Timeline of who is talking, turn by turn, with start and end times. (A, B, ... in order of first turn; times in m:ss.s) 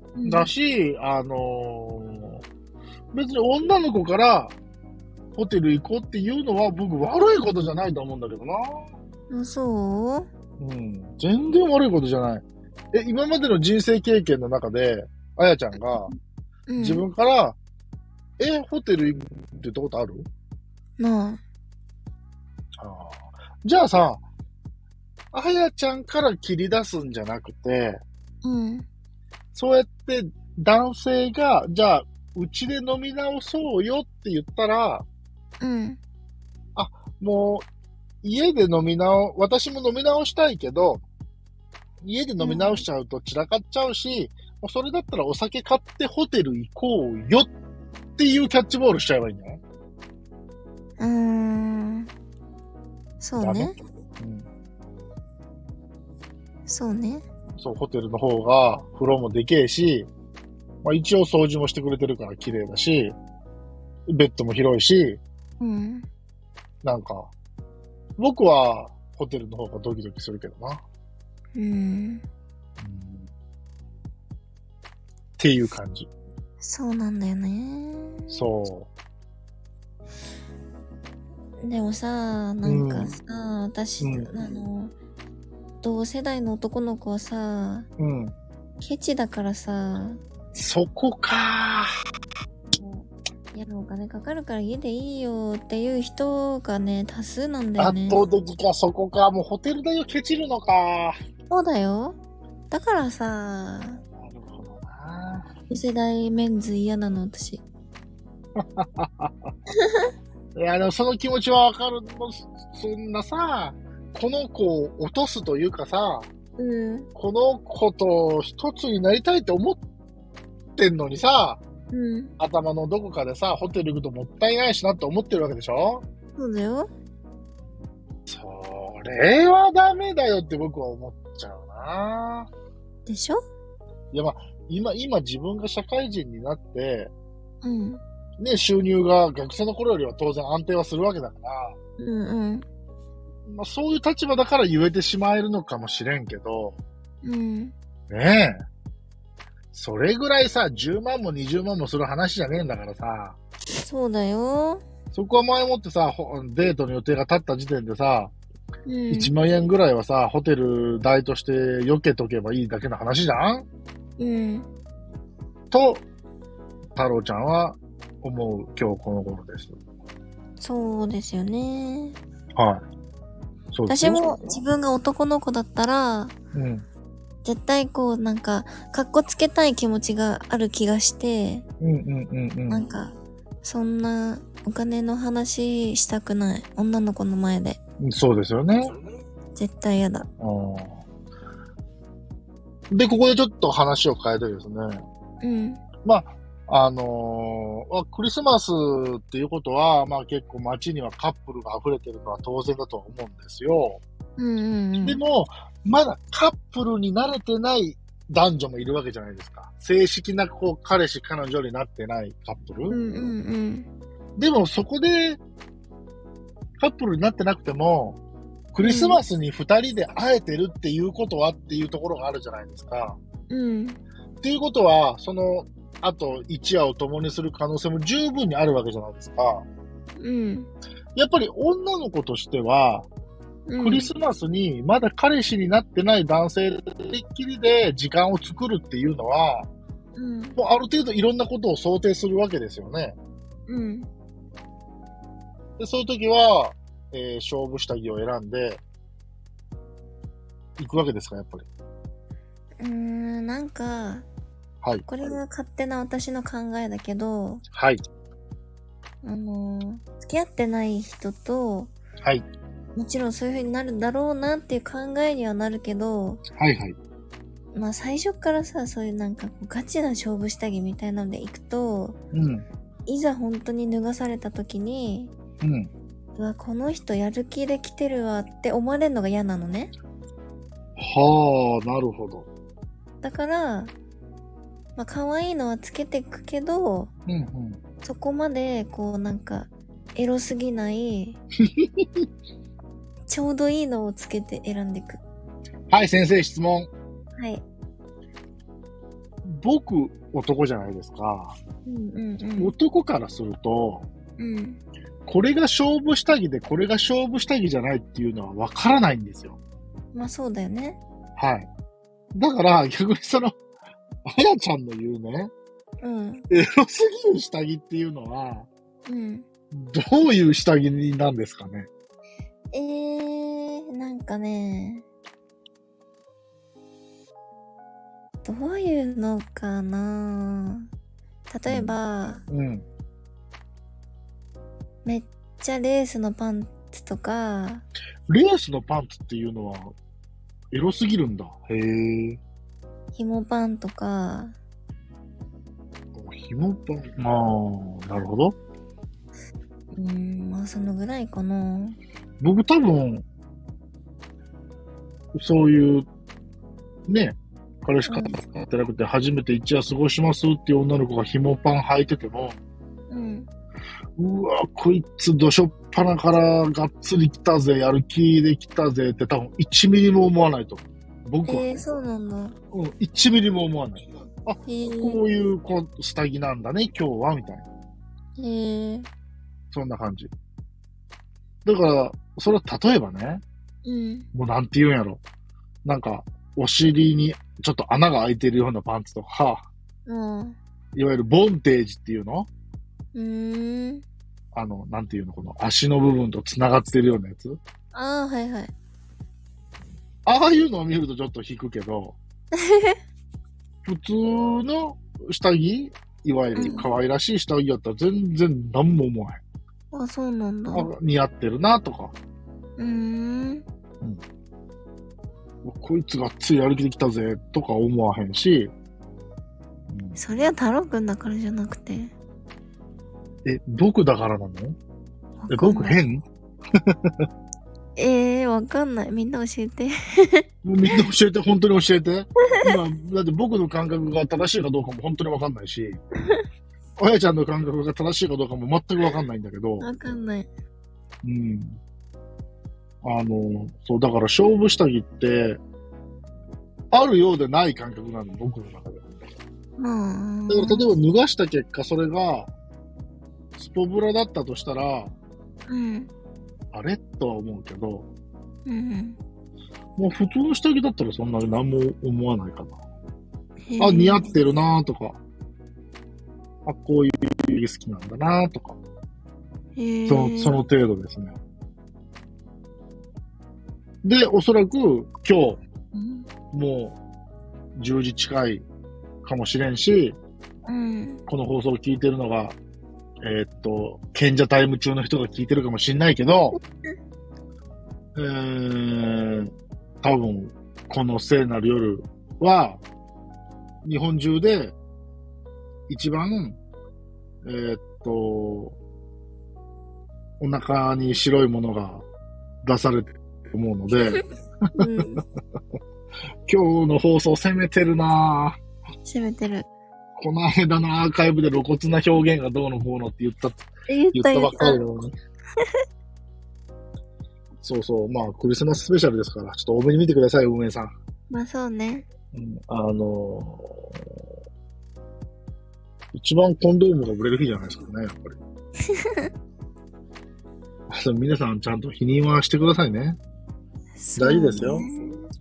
0:00.2-0:00.5 A
0:00.3-0:02.4 B
0:03.1-0:04.5 B
0:05.4-0:08.8 B
0:09.3-0:10.3 A
0:10.6-0:16.1 B
0:16.7-0:17.1 A
0:16.8-0:17.6 B
0:18.4-0:20.3 B
0:21.0-0:21.4 A
0:22.8-0:24.2 B
0:25.3-0:28.0 B
0:28.4-0:28.9 A
0:29.6-0:35.1 B
0:35.6-0:36.0 A
0:36.8-0:37.7 B
0:38.2-0:41.0 B
0:42.0-0:47.5 B
0:42.4-0:42.8 A
0:48.2-0:49.6 B
0:51.0-0:52.1 A
0:53.2-0:53.8 A
0:53.4-0:54.5 B
0:56.7-0:57.2 A
0:57.6-1:00.1 B
1:00.8-1:03.2 B
1:04.1-1:05.2 B
1:05.6-1:06.1 A
1:06.8-1:07.3 B
1:08.2-1:10.8 B
1:11.6-1:12.2 A
1:12.8-1:13.3 B
1:15.4-1:16.1 B
1:16.6-1:18.4 A
1:18.3-1:18.9 B
1:21.6-1:24.9 A
1:22.6-1:23.1 B
1:24.0-1:24.3 B
1:25.8-1:27.9 A
1:28.0-1:28.3 B
1:28.8-1:30.2 A
1:30.5-1:31.9 B
1:32.7-1:38.2 A
1:37.8-1:41.2 B
1:41.5-1:42.2 A
1:42.7-1:44.0 A
1:44.2-1:45.5 B
1:45.7-1:47.6 A
1:48.6-1:49.5 B
1:49.8-1:50.1 A
1:50.6-1:56.3 B
1:56.6-1:57.1 A
1:57.2-1:59.8 B
2:00.8-2:01.6 B
2:01.9-2:02.3 A
2:02.4-2:06.0 B
2:06.4-2:06.9 A
2:08.3-2:12.5 B
2:13.1-2:13.4 A
2:14.1-2:17.1 B
2:17.6-2:18.0 A
2:18.4-2:21.7 B
2:22.0-2:22.6 A
2:23.5-2:26.8 B
2:27.2-2:27.7 A
2:28.1-2:28.6 B
2:29.7-2:33.4 B
2:33.8-2:34.8 A
2:35.1-2:38.3 B
2:38.9-2:39.3 A
2:39.1-2:43.7 B
2:44.2-2:44.7 A
2:45.7-2:46.0 B
2:47.0-2:49.8 B
2:50.6-2:52.2 A
2:52.6-2:52.8 B
2:53.7-2:54.3 B
2:53.9-2:56.3 A
2:56.5-2:56.8 B
2:57.4-3:01.7 A
3:01.8-3:02.8 B
3:02.7-3:03.1 A
3:03.6-3:07.8 A
3:08.0-3:08.9 B
3:09.6-3:10.3 A
3:10.4-3:11.0 B
3:12.9-3:15.0 B
3:15.4-3:15.8 A
3:16.0-3:24.0 B
3:24.4-3:25.2 A
3:25.0-3:33.0 B
3:32.9-3:33.9 A
3:34.4-3:35.4 B
3:36.8-3:38.2 B
3:38.7-3:43.2 B
3:38.8-3:39.2 A
3:43.5-3:44.0 A
3:44.4-3:49.7 B
3:50.2-3:50.7 A
3:51.2-3:53.1 B
3:53.7-3:54.1 A
3:53.8-3:59.7 B
4:00.2-4:00.6 A
4:00.6-4:03.2 B
4:03.7-4:04.1 A
4:05.8-4:08.8 B
4:10.8-4:11.7 B
4:12.8-4:14.3 A
4:14.8-4:15.1 B
4:15.1-4:17.6 A
4:17.7-4:18.0 B
4:19.2-4:21.9 A
4:23.0-4:26.4 A
4:26.5-4:27.0 B
4:27.7-4:32.2 A
4:32.3-4:32.6 B
4:33.1-4:35.3 A
4:35.6-4:35.9 B
4:36.4-4:39.9 A
4:41.0-4:42.5 B
4:43.2-4:43.9 A
4:45.0-4:47.1 A
4:47.3-4:47.8 B
4:48.0-4:51.4 A
4:51.6-4:52.3 B
4:53.3-4:55.2 A
4:55.9-4:56.9 B
4:57.4-4:57.6 A
4:59.4-5:01.6 B
5:01.9-5:02.7 A
5:02.6-5:04.1 B
5:04.4-5:04.8 A
5:05.3-5:09.6 B
5:10.1-5:11.0 A
5:11.4-5:11.7 B
5:12.4-5:13.6 B
5:14.2-5:15.5 B
5:16.0-5:16.5 A
5:16.5-5:18.7 B
5:19.1-5:19.5 A
5:19.7-5:21.9 B
5:22.7-5:25.1 A
5:28.4-5:30.9 A
5:31.5-5:32.4 A
5:31.7-5:32.0 B
5:32.5-5:32.8 B
5:35.0-5:37.8 A
5:38.3-5:40.0 B
5:40.7-5:42.4 B
5:43.2-5:44.6 A
5:46.1-5:48.6 B
5:49.9-5:52.0 A
5:52.4-5:53.2 B
5:55.3-5:56.1 B
5:57.1-6:02.6 B
5:58.1-5:58.4 A
6:03.1-6:03.5 A
6:04.2-6:11.8 B
6:11.5-6:12.6 A
6:12.7-6:17.7 B
6:14.7-6:15.2 A
6:18.4-6:19.1 A
6:19.7-6:20.3 B
6:21.6-6:23.4 B
6:23.8-6:24.3 A
6:24.3-6:25.2 B
6:25.8-6:29.6 B
6:30.1-6:30.6 A
6:31.0-6:32.5 B
6:33.1-6:34.0 A
6:34.5-6:37.6 B
6:37.9-6:38.7 A
6:40.3-6:42.2 B
6:42.5-6:43.0 A
6:43.8-6:49.4 B
6:46.6-6:46.9 A
6:49.9-6:50.9 A
6:50.7-6:52.2 B
6:52.8-6:53.6 A
6:55.6-6:58.7 B
6:59.9-7:00.2 B
7:00.2-7:02.1 A
7:03.4-7:04.8 B
7:05.4-7:06.0 A
7:05.5-7:06.2 B
7:06.8-7:07.3 B
7:08.0-7:11.0 A
7:10.6-7:16.0 B
7:17.0-7:19.9 B
7:19.8-7:20.5 A
7:21.2-7:21.8 B
7:23.0-7:25.6 B
7:26.9-7:29.3 B
7:29.8-7:30.9 A
7:30.5-7:32.5 B
7:33.6-7:35.1 B
7:35.7-7:36.1 A
7:36.7-7:38.1 B
7:38.7-7:39.2 A
7:40.0-7:42.8 B
7:43.7-7:44.4 A
7:43.8-7:45.2 B
7:46.6-7:48.8 B
7:49.8-7:50.6 A
7:50.1-7:51.4 B
7:54.0-7:55.6 B
7:55.9-7:56.3 A
7:56.5-7:57.0 B
7:57.8-7:58.6 B
7:59.2-8:00.2 B
8:00.7-8:01.2 A
8:01.3-8:02.6 B
8:03.2-8:06.6 B
8:08.2-8:12.8 B
8:13.8-8:14.8 B
8:15.9-8:16.6 B
8:17.4-8:18.8 B
8:20.4-8:22.0 B
8:22.6-8:24.2 B
8:24.8-8:25.2 A
8:24.8-8:25.1 B
8:26.5-8:28.6 B
8:29.0-8:29.7 A
8:30.2-8:35.1 B
8:33.9-8:34.8 A
8:37.6-8:40.9 B
8:41.3-8:42.1 A
8:42.3-8:44.1 B
8:46.1-8:48.4 B
8:48.9-8:49.3 A
8:50.9-8:53.2 B
8:54.0-8:55.2 A
8:54.2-8:54.9 B